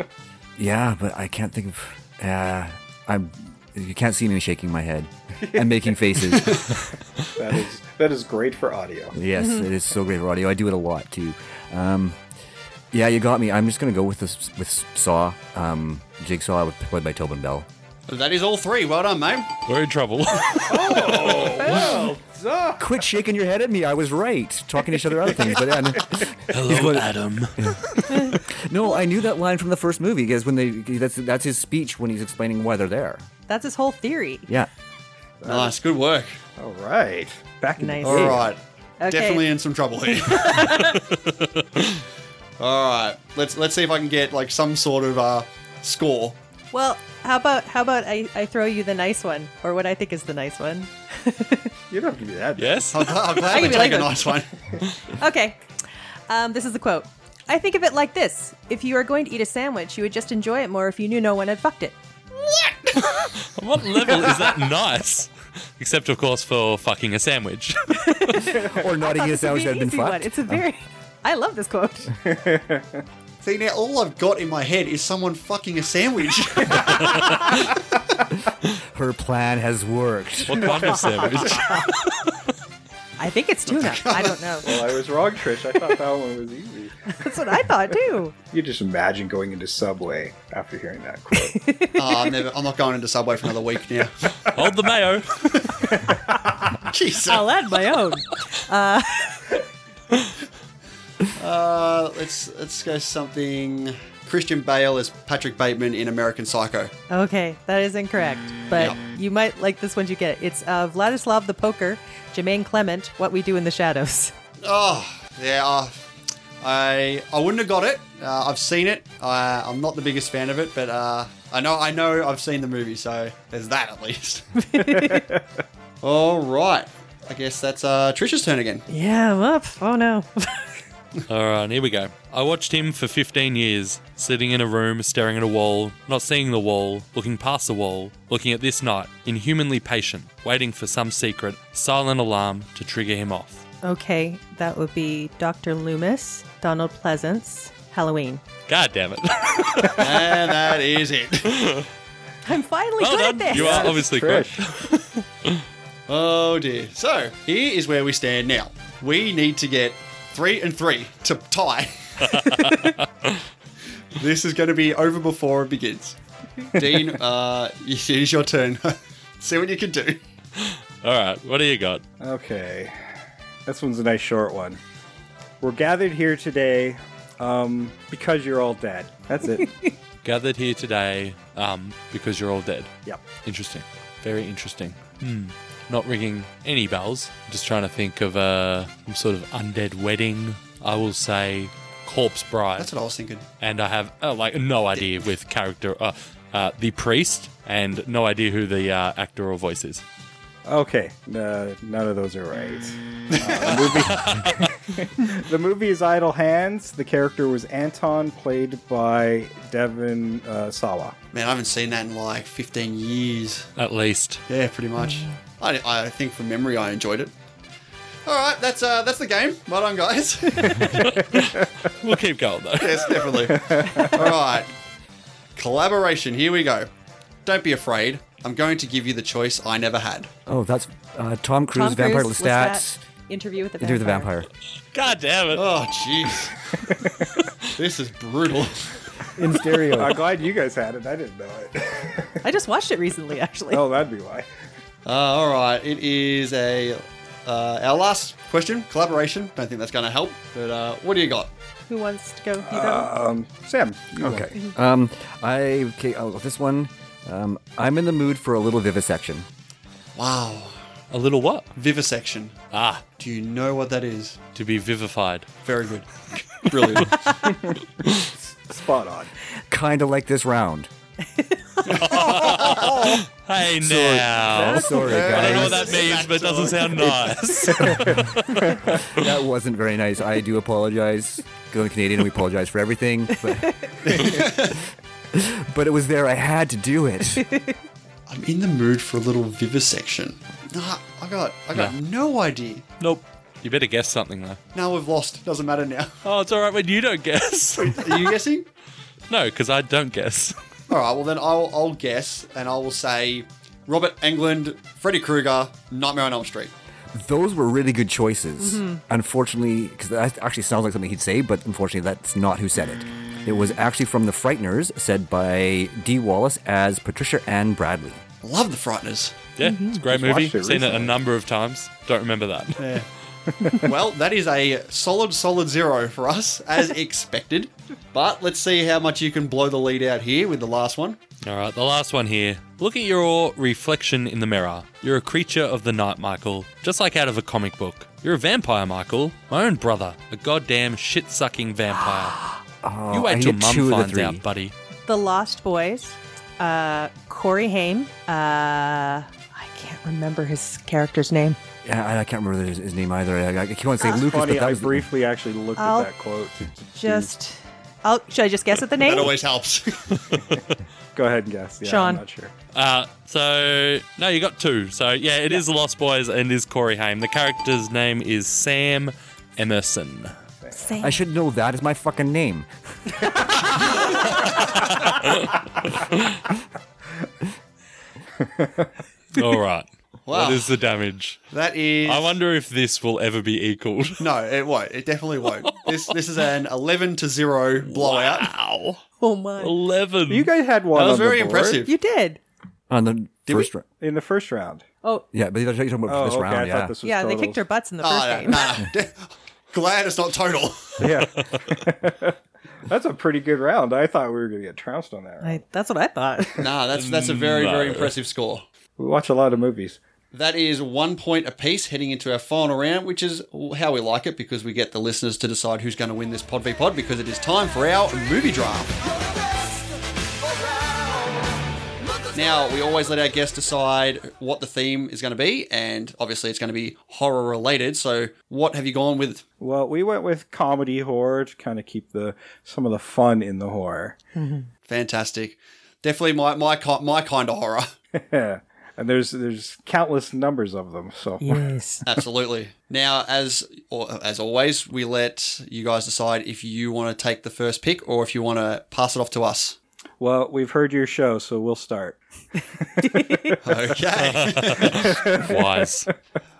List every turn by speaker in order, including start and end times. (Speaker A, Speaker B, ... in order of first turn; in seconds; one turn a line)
Speaker A: 0.6-6.8
Speaker B: 5.4-5.7
Speaker C: 6.3-6.7
Speaker B: 7.4-9.2
Speaker A: 9.1-12.2
Speaker D: 9.4-9.6
Speaker A: 12.9-17.7
Speaker C: 18.1-19.5
Speaker E: 19.7-21.7
Speaker B: 20.7-22.8
Speaker D: 21.7-22.1
Speaker A: 22.8-33.3
Speaker B: 25.3-25.6
Speaker E: 26.5-27.5
Speaker D: 28.1-28.4
Speaker D: 33.5-34.5
Speaker B: 35.4-35.8
Speaker C: 35.5-36.4
Speaker B: 36.6-38.4
Speaker D: 37.8-38.4
Speaker C: 38.0-40.8
Speaker A: 38.1-38.4
Speaker D: 39.0-39.5
Speaker D: 40.1-41.0
Speaker C: 42.6-46.4
Speaker D: 46.7-51.7
Speaker B: 51.9-52.9
Speaker E: 52.6-53.7
Speaker C: 52.9-54.5
Speaker D: 53.5-54.3
Speaker D: 55.2-55.6
Speaker D: 56.3-62.0
Speaker C: 62.4-63.3
Speaker E: 63.6-68.2
Speaker D: 67.9-72.1
Speaker A: 68.7-70.6
Speaker B: 72.2-73.0
Speaker C: 73.4-77.7
Speaker A: 78.8-80.9
Speaker E: 80.5-81.9
Speaker D: 81.4-81.9
Speaker D: 83.2-84.7
Speaker C: 83.7-84.9
Speaker B: 84.6-87.7
Speaker D: 87.1-88.3
Speaker B: 88.5-91.7
Speaker D: 91.4-92.3
Speaker C: 92.0-94.7
Speaker E: 94.5-95.5
Speaker C: 95.4-95.7
Speaker B: 96.1-96.4
Speaker C: 96.9-97.5
Speaker D: 97.3-99.5
Speaker C: 101.3-106.9
Speaker D: 107.1-114.3
Speaker C: 108.7-109.0
Speaker C: 114.6-116.0
Speaker C: 116.6-124.5
Speaker D: 124.6-125.3
Speaker B: 125.0-125.4
Speaker C: 126.0-128.8
Speaker D: 128.9-130.7
Speaker E: 131.3-143.6
Speaker D: 143.8-148.4
Speaker E: 148.7-150.2
Speaker C: 150.0-151.6
Speaker D: 152.4-154.0
Speaker E: 153.0-155.6
Speaker B: 153.5-154.7
Speaker C: 156.1-162.6
Speaker E: 162.3-163.0
Speaker C: 164.2-166.2
Speaker C: 166.8-170.2
Speaker E: 170.6-172.0
Speaker B: 172.2-172.9
Speaker B: 173.7-174.8
Speaker B: 175.6-179.9
Speaker E: 180.2-182.9
Speaker E: 183.4-192.9
Speaker C: 192.8-193.4
Speaker E: 193.6-200.0
Speaker B: 200.7-211.2
Speaker C: 203.4-204.1
Speaker E: 204.1-204.7
Speaker C: 211.3-213.7
Speaker E: 213.8-214.4
Speaker C: 214.5-217.3
Speaker C: 218.3-221.1
Speaker E: 220.9-223.5
Speaker C: 222.8-224.7
Speaker B: 223.5-224.2
Speaker C: 225.6-226.9
Speaker C: 227.4-230.3
Speaker A: 230.5-233.0
Speaker D: 231.7-234.3
Speaker A: 233.8-234.5
Speaker E: 234.9-235.7
Speaker C: 235.5-236.6
Speaker C: 237.8-238.9
Speaker B: 239.4-242.3
Speaker A: 239.8-240.1
Speaker D: 242.4-243.8
Speaker B: 243.7-244.5
Speaker C: 245.1-251.5
Speaker D: 251.9-253.1
Speaker B: 252.6-254.5
Speaker A: 254.2-259.5
Speaker C: 260.2-260.7
Speaker E: 261.1-261.7
Speaker C: 261.8-262.6
Speaker E: 262.7-263.0
Speaker C: 263.2-264.4
Speaker E: 264.6-265.5
Speaker C: 265.6-267.4
Speaker B: 267.4-269.3
Speaker A: 269.7-270.9
Speaker D: 271.4-272.0
Speaker C: 271.9-273.2
Speaker E: 272.0-278.8
Speaker A: 273.8-276.1
Speaker C: 274.7-277.4
Speaker B: 277.8-278.3
Speaker A: 278.9-284.8
Speaker C: 284.0-284.8
Speaker A: 285.3-287.5
Speaker D: 287.4-287.8
Speaker C: 288.3-292.9
Speaker E: 293.0-294.6
Speaker C: 294.7-296.1
Speaker E: 296.2-298.4
Speaker C: 297.8-298.7
Speaker E: 299.3-300.6
Speaker C: 300.9-306.7
Speaker A: 307.1-318.2
Speaker D: 308.6-309.0
Speaker C: 318.4-319.4
Speaker E: 319.6-322.8
Speaker D: 319.6-320.0
Speaker B: 319.9-321.1
Speaker C: 322.8-323.1
Speaker C: 323.8-331.2
Speaker E: 331.4-342.4
Speaker A: 342.8-344.4
Speaker E: 343.1-344.7
Speaker D: 345.1-351.6
Speaker A: 351.8-355.1
Speaker B: 354.1-357.3
Speaker D: 355.8-356.1
Speaker D: 357.0-359.4
Speaker C: 359.0-360.4
Speaker B: 361.1-362.5
Speaker D: 361.8-362.2
Speaker E: 362.7-370.3
Speaker D: 370.7-371.2
Speaker A: 371.0-373.1
Speaker E: 374.5-375.5
Speaker E: 379.3-381.4
Speaker C: 380.3-380.8
Speaker C: 381.5-382.4
Speaker E: 382.1-384.3
Speaker C: 384.2-388.5
Speaker E: 387.9-389.0
Speaker D: 389.2-389.8
Speaker E: 389.6-390.5
Speaker B: 390.3-391.8
Speaker C: 390.9-391.9
Speaker D: 391.9-392.4
Speaker A: 392.9-393.9
Speaker B: 394.0-394.8
Speaker A: 395.3-396.9
Speaker B: 396.1-397.6
Speaker D: 397.0-398.7
Speaker C: 398.0-401.2
Speaker B: 401.0-402.4
Speaker B: 402.9-405.6
Speaker D: 405.4-406.6
Speaker C: 406.6-408.6
Speaker E: 406.9-408.1
Speaker B: 409.0-410.0
Speaker C: 410.3-419.0
Speaker C: 422.3-429.4
Speaker B: 429.6-434.2
Speaker D: 434.4-434.7
Speaker C: 434.9-437.9
Speaker B: 438.1-441.7
Speaker D: 441.4-442.1
Speaker C: 442.1-449.8
Speaker B: 450.2-452.2
Speaker B: 452.8-453.6
Speaker D: 453.0-453.6
Speaker C: 453.6-455.2
Speaker E: 454.2-456.1
Speaker B: 455.0-455.7